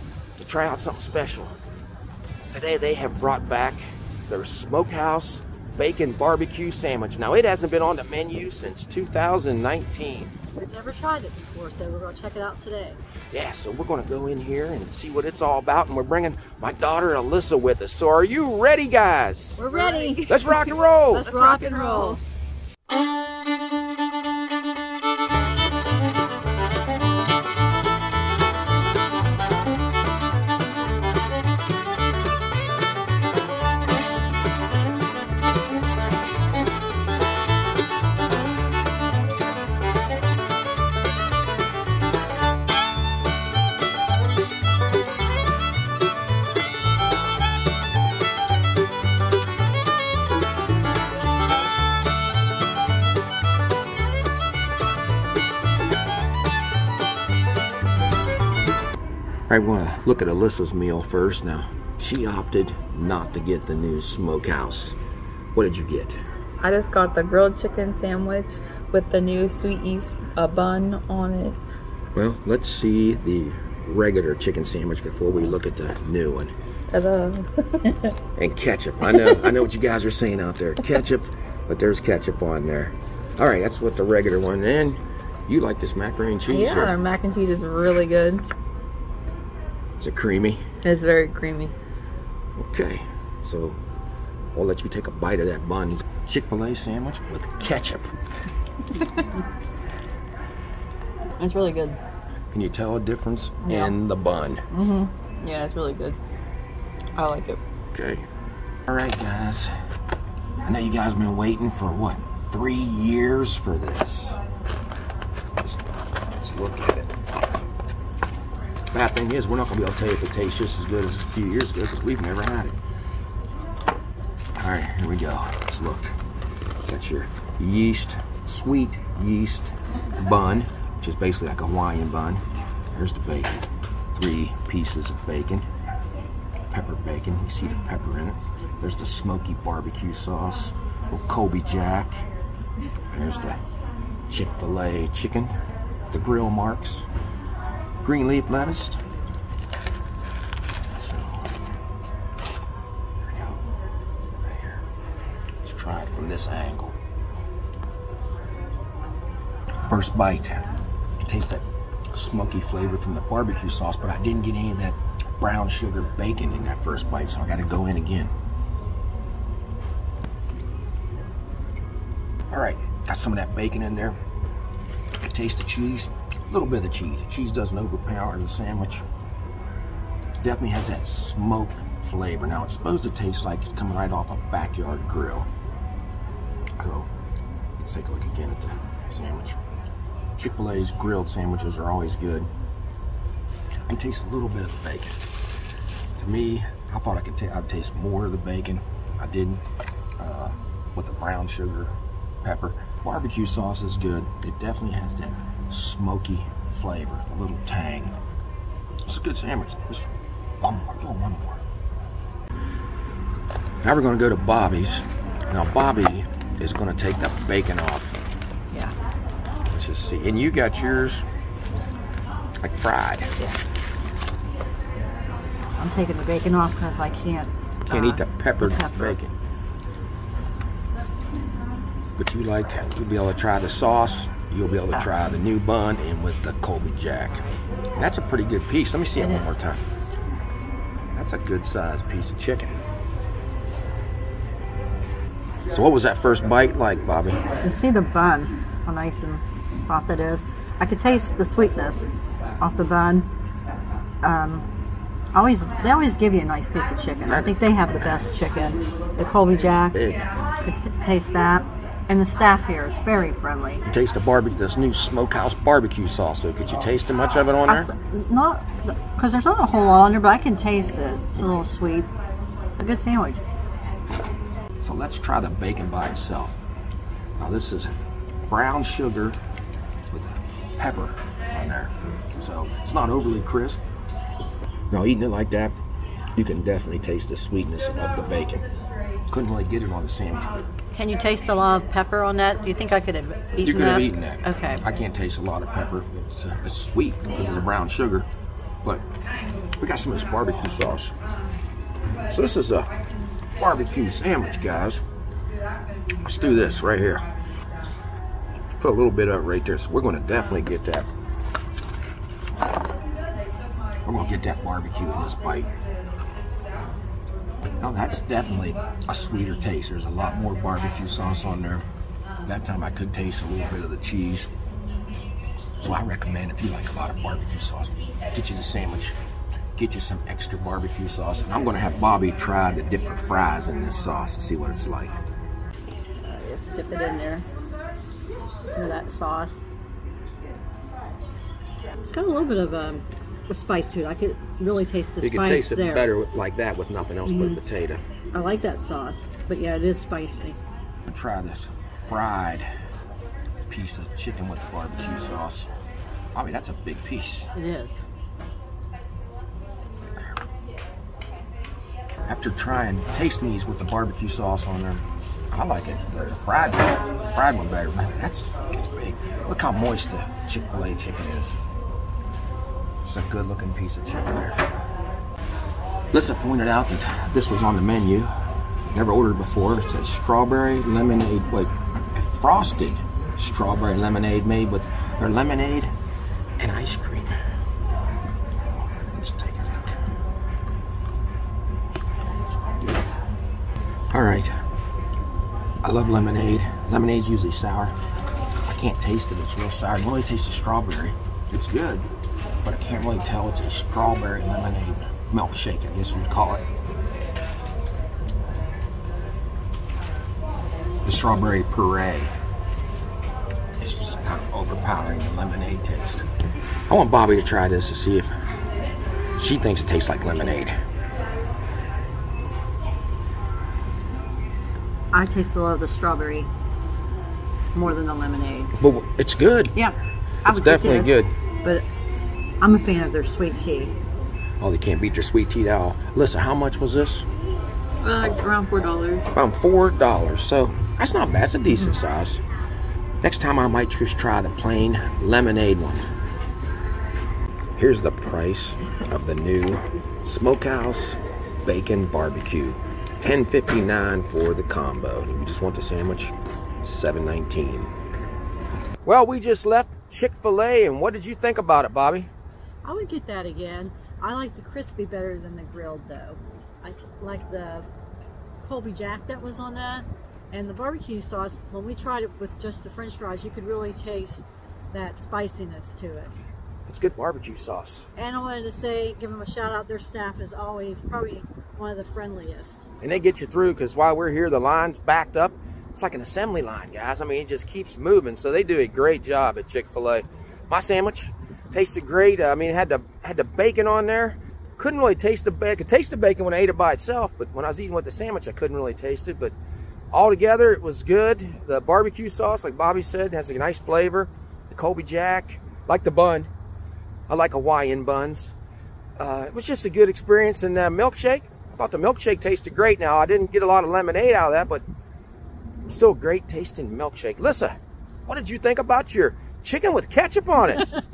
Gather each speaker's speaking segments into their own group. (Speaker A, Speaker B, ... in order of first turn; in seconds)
Speaker A: 0.4-1.6, 2.5-10.3, 13.3-19.6, 20.3-21.3, 59.5-65.0, 65.5-66.2, 72.2-76.5, 78.4-87.0, 90.0-90.7, 92.6-93.8, 94.5-98.3, 102.5-104.7, 107.9-108.2, 108.9-109.7, 110.6-114.4, 115.6-115.8, 116.4-117.1, 118.9-122.8, 124.6-126.2, 126.8-135.7, 136.7-142.3, 143.1-143.6, 144.3-145.5, 146.1-147.1, 148.0-149.0, 150.9-151.5, 153.2-153.6, 154.4-154.9, 155.6-157.0, 159.9-160.7, 161.2-168.3, 172.5-174.2, 175.2-179.1, 180.4-185.5, 186.8-187.1, 187.8-189.6, 190.4-192.5, 193.9-195.2, 196.2-199.6, 200.2-208.2, 209.1-210.1, 210.6-211.6, 213.8-218.2, 219.7-221.3, 222.6-223.4, 227.9-229.4, 232.2-239.8, 241.1-242.8, 245.7-247.5, 257.3-258.3, 259.5-260.3, 263.9-267.9, 274.8-276.6, 277.4-277.9, 278.5-279.4, 280.1-283.8, 284.9-285.8, 286.4-288.7, 289.3-290.6, 293.6-298.3, 298.8-299.1, 299.8-301.2, 302.3-302.9, 303.6-305.0, 306.2-307.3, 308.8-311.1, 314.1-315.8, 317.8-321.9, 322.4-324.5, 325.8-329.2, 329.8-335.2, 345.2-348.0, 351.1-352.7, 353.7-355.7, 356.3-357.5, 362.3-371.6, 373.0-374.6, 376.1-378.3, 378.9-385.9, 386.6-387.4, 388.6-390.0, 392.3-393.0, 394.1-394.6, 395.8-398.0, 398.6-402.1, 402.6-406.7, 411.0-412.3, 413.8-416.3, 416.9-418.3, 419.4-420.8, 428.8-429.8, 430.4-431.3, 434.6-437.3, 439.3-442.4, 443.2-446.1, 447.8-457.9, 459.0-462.3, 476.9-478.1, 483.0-499.6, 500.1-506.5, 507.3-508.5, 509.2-514.9, 515.9-520.9
Speaker B: 10.6-13.0, 19.6-20.3, 21.1-22.2, 225.8-229.2, 239.2-239.5, 247.6-252.1, 252.6-253.3, 254.2-254.7, 255.3-260.0, 260.6-263.8, 267.7-272.1, 272.8-273.4, 290.9-294.9, 336.2-337.5, 338.7-339.7, 342.0-346.1, 347.2-347.6, 348.3-350.6, 357.6-358.0, 425.1-426.5, 427.7-428.7, 429.8-431.9, 432.6-433.9, 462.8-467.9, 468.6-476.3, 478.2-482.8
Speaker C: 19.7-22.2, 66.6-71.6, 76.9-78.2, 79.1-79.6, 86.5-88.5, 90.8-91.7, 99.0-99.2, 101.4-102.0, 103.7-103.9, 104.7-106.2, 107.2-107.6, 438.0-439.3